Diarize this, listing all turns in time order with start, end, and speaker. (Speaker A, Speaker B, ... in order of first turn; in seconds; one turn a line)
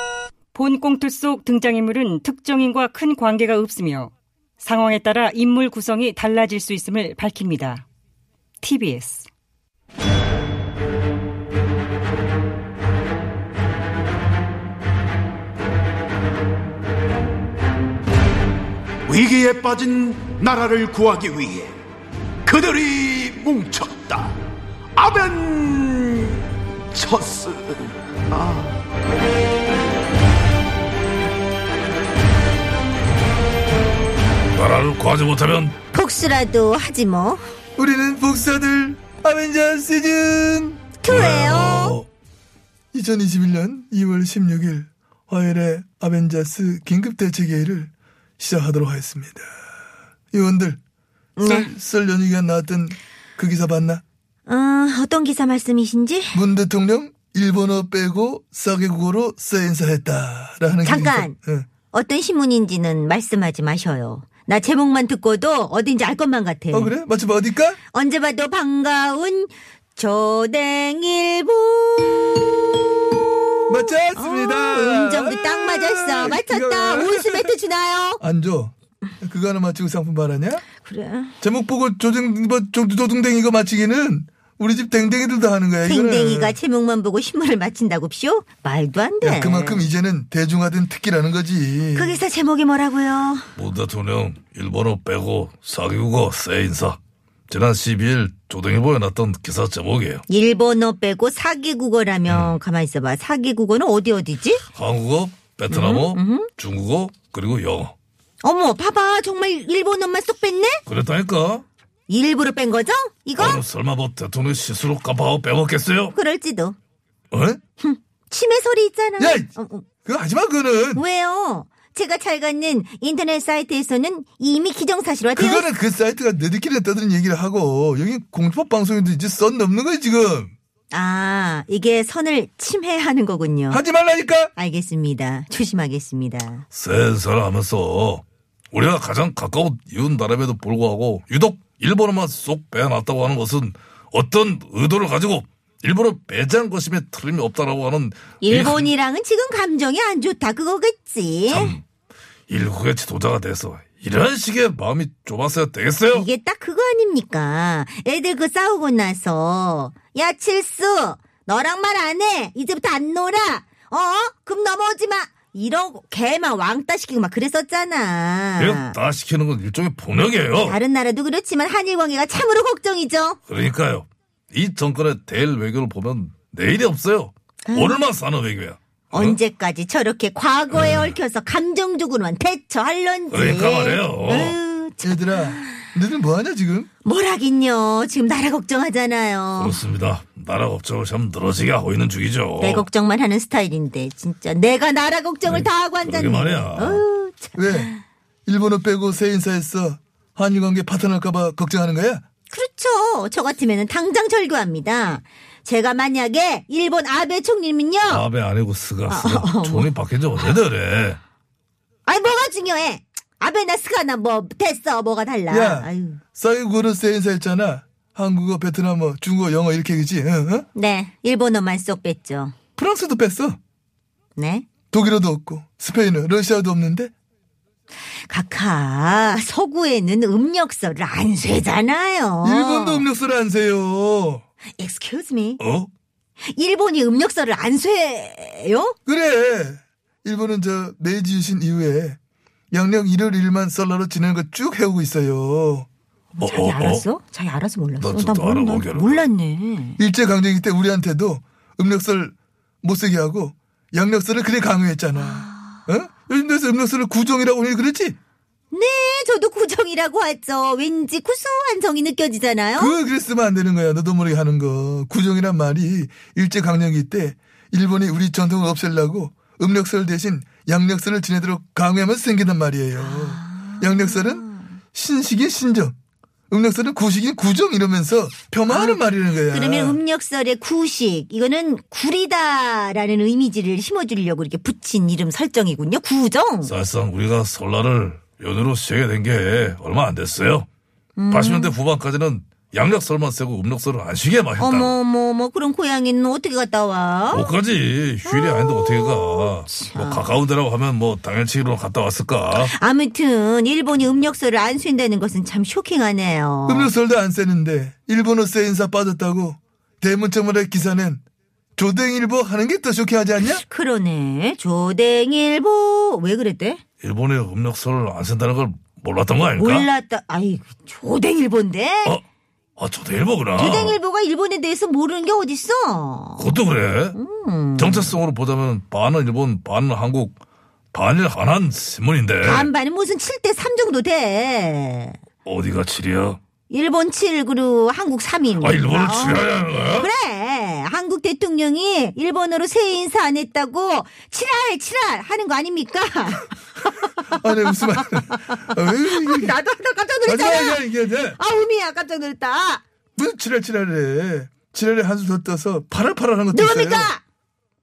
Speaker A: 0.5-7.8
Speaker A: 8.6-9.3
Speaker B: 19.1-21.7
Speaker B: 22.4-24.3
Speaker B: 24.9-26.4
Speaker B: 26.9-28.7
Speaker C: 34.5-35.8
Speaker D: 35.9-37.4
Speaker E: 37.8-40.8
Speaker D: 41.0-42.0
Speaker C: 41.1-42.0
Speaker E: 42.9-49.5
Speaker E: 50.3-50.8
Speaker D: 51.4-51.7
Speaker E: 51.4-54.0
Speaker D: 54.5-56.4
Speaker E: 56.3-61.7
Speaker D: 60.8-61.4
Speaker D: 61.9-66.9
Speaker E: 66.7-67.8
Speaker D: 67.9-78.2
Speaker E: 73.7-77.5
Speaker E: 78.2-80.6
Speaker D: 80.8-81.3
Speaker E: 81.4-86.6
Speaker D: 85.8-89.9
Speaker E: 89.2-92.2
Speaker D: 91.9-93.5
Speaker C: 93.5-100.2
Speaker D: 100.3-104.6
Speaker C: 102.3-102.5
Speaker C: 104.7-107.9
Speaker D: 105.7-106.5
Speaker D: 108.4-110.8
Speaker C: 110.8-111.6
Speaker D: 112.1-113.6
Speaker C: 113.4-116.1
Speaker D: 116.1-116.8
Speaker C: 117.3-117.6
Speaker D: 117.8-119.8
Speaker E: 119.2-119.5
Speaker E: 120.0-121.0
Speaker D: 120.9-125.7
Speaker E: 125.3-130.5
Speaker D: 130.9-133.8
Speaker E: 133.7-134.5
Speaker D: 134.6-136.6
Speaker C: 136.7-148.9
Speaker D: 148.4-151.8
Speaker C: 151.5-151.8
Speaker C: 152.5-156.3
Speaker D: 156.1-168.9
Speaker C: 168.6-170.8
Speaker D: 170.6-173.4
Speaker C: 173.5-179.4
Speaker D: 177.6-178.0
Speaker D: 179.1-185.9
Speaker C: 180.7-181.2
Speaker C: 183.3-184.6
Speaker E: 185.0-186.9
Speaker D: 187.0-189.8
Speaker C: 189.6-192.9
Speaker D: 192.6-198.0
Speaker C: 195.4-197.0
Speaker E: 197.6-197.9
Speaker E: 198.4-202.2
Speaker D: 202.5-208.2
Speaker C: 208.1-211.2
Speaker D: 209.1-209.9
Speaker D: 212.0-216.2
Speaker E: 215.5-220.7
Speaker D: 220.7-222.5
Speaker E: 222.8-223.6
Speaker D: 224.3-224.7
Speaker E: 224.9-227.1
Speaker D: 228.3-233.1
Speaker E: 232.4-234.4
Speaker D: 234.8-235.6
Speaker C: 235.6-235.9
Speaker D: 236.5-239.0
Speaker E: 239.1-242.2
Speaker E: 242.7-245.9
Speaker D: 246.4-250.0
Speaker C: 246.4-247.1
Speaker C: 248.0-249.2
Speaker E: 250.0-258.1
Speaker D: 255.1-255.8
Speaker D: 258.7-262.9
Speaker E: 262.8-275.9
Speaker D: 272.9-274.7
Speaker E: 276.5-280.0
Speaker D: 278.7-286.7
Speaker C: 286.6-290.7
Speaker D: 291.1-291.8
Speaker C: 291.3-294.9
Speaker D: 294.6-297.5
Speaker C: 297.3-302.7
Speaker D: 298.2-300.2
Speaker D: 302.6-306.9
Speaker E: 306.7-311.2
Speaker E: 311.8-313.6
Speaker D: 313.6-316.8
Speaker C: 317.0-319.9
Speaker D: 319.6-322.2
Speaker C: 322.8-324.0
Speaker D: 323.6-326.5
Speaker C: 326.4-327.2
Speaker D: 327.1-328.1
Speaker C: 327.8-330.4
Speaker C: 330.9-332.7
Speaker D: 332.4-335.2
Speaker C: 335.4-336.4
Speaker D: 336.7-347.4
Speaker C: 338.6-340.1
Speaker E: 347.3-349.6
Speaker D: 348.3-352.8
Speaker E: 350.2-351.4
Speaker E: 353.1-357.1
Speaker D: 356.5-357.2